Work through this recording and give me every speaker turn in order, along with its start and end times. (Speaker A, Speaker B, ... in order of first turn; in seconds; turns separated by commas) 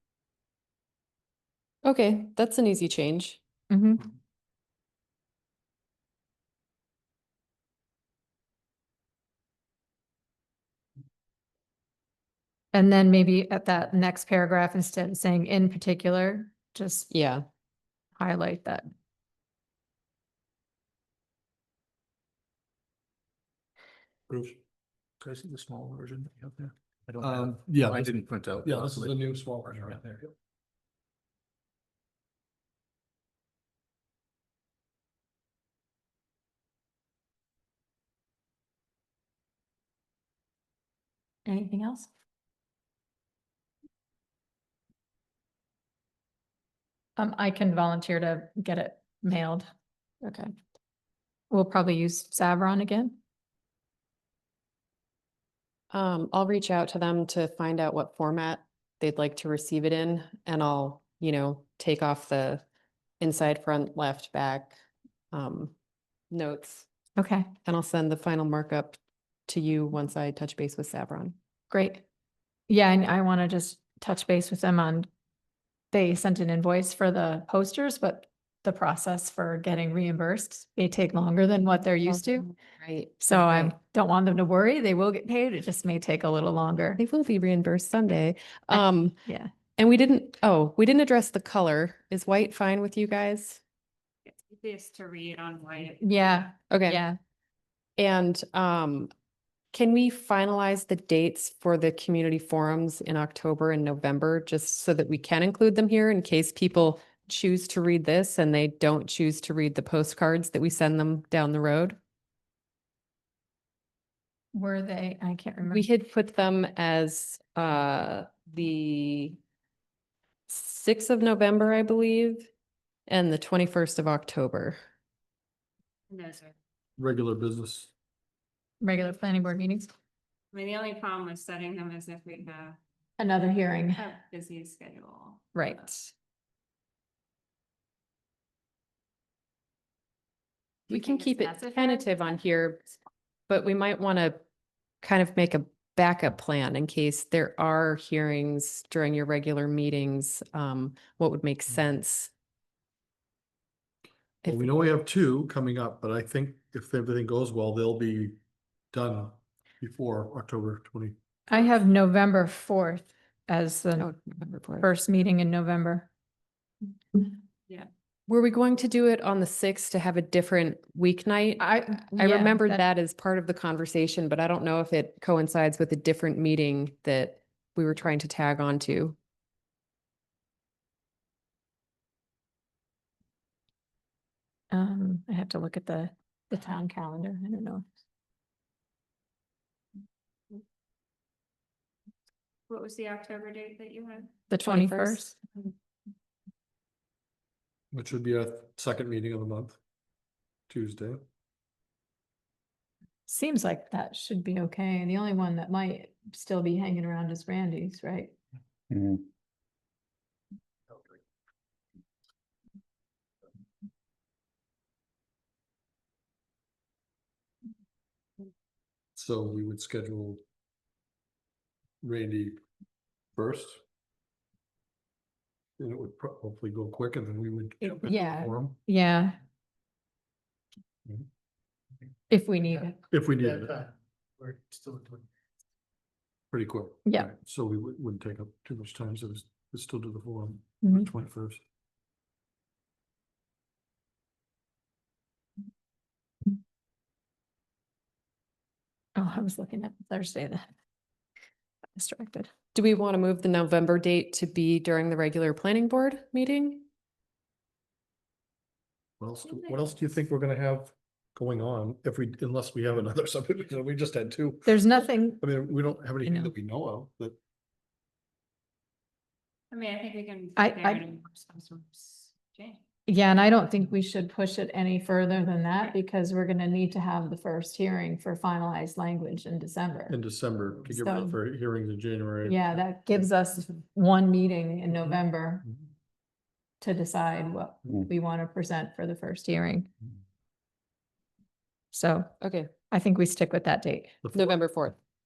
Speaker A: 1.8-3.4, Speaker B: 3.7-4.0, Speaker B: 12.7-17.1, Speaker A: 17.1-17.4, Speaker B: 18.2-18.9, Speaker C: 25.2-30.2, Speaker D: 27.2-30.3, Speaker B: 41.5-42.1, Speaker B: 47.2-49.7, Speaker A: 50.2-50.5, Speaker B: 51.5-53.2, Speaker A: 55.9-62.6, Speaker A: 63.2-64.8, Speaker A: 65.3-65.7, Speaker A: 66.3-66.9, Speaker B: 67.2-67.5, Speaker A: 67.6-71.3, Speaker B: 71.7-72.0, Speaker B: 72.7-75.1, Speaker B: 75.9-82.5, Speaker A: 82.8-83.7, Speaker B: 83.2-87.0, Speaker A: 87.0-89.2, Speaker B: 88.7-89.5, Speaker A: 89.8-93.6, Speaker E: 94.2-96.3, Speaker B: 96.0-97.2, Speaker A: 96.7-97.0, Speaker A: 98.0-99.1, Speaker A: 99.7-112.0, Speaker B: 114.5-115.8, Speaker A: 115.7-119.4, Speaker A: 120.5-122.5, Speaker A: 123.1-124.8, Speaker E: 126.1-126.5, Speaker D: 127.0-127.9, Speaker B: 128.8-129.9, Speaker E: 130.5-132.8, Speaker B: 133.2-134.0, Speaker E: 133.9-135.8, Speaker B: 135.5-136.1, Speaker E: 140.9-142.2, Speaker A: 140.9-142.9, Speaker A: 143.5-144.4, Speaker A: 145.0-152.3, Speaker D: 154.4-158.4, Speaker A: 154.4-154.7, Speaker D: 158.9-161.2, Speaker B: 161.5-164.1, Speaker A: 164.0-164.9, Speaker B: 164.8-166.1, Speaker A: 168.3-179.2, Speaker B: 171.6-172.8, Speaker B: 184.7-187.8, Speaker E: 192.7-194.4, Speaker B: 194.5-195.4, Speaker A: 194.6-195.2, Speaker D: 197.9-199.8, Speaker D: 200.7-201.2, Speaker B: 203.3-208.3, Speaker D: 219.2-220.4, Speaker D: 222.0-222.6, Speaker D: 223.3-223.8, Speaker D: 225.8-228.8, Speaker B: 228.0-229.4, Speaker B: 232.3-233.0, Speaker D: 233.1-233.8, Speaker D: 236.5-241.6, Speaker B: 237.1-237.3, Speaker B: 249.2-250.7, Speaker B: 252.0-252.5, Speaker A: 252.7-256.9, Speaker D: 259.2-264.8, Speaker E: 259.4-260.0, Speaker B: 264.7-265.4, Speaker D: 265.4-267.4, Speaker B: 266.2-266.5, Speaker E: 269.7-272.8, Speaker B: 270.6-271.0, Speaker B: 273.1-280.1, Speaker D: 280.1-283.2, Speaker B: 280.9-281.4, Speaker B: 282.4-285.6, Speaker B: 286.8-289.9, Speaker B: 291.9-292.3, Speaker A: 292.4-292.7, Speaker B: 292.9-294.2, Speaker D: 294.2-294.6, Speaker A: 294.3-294.9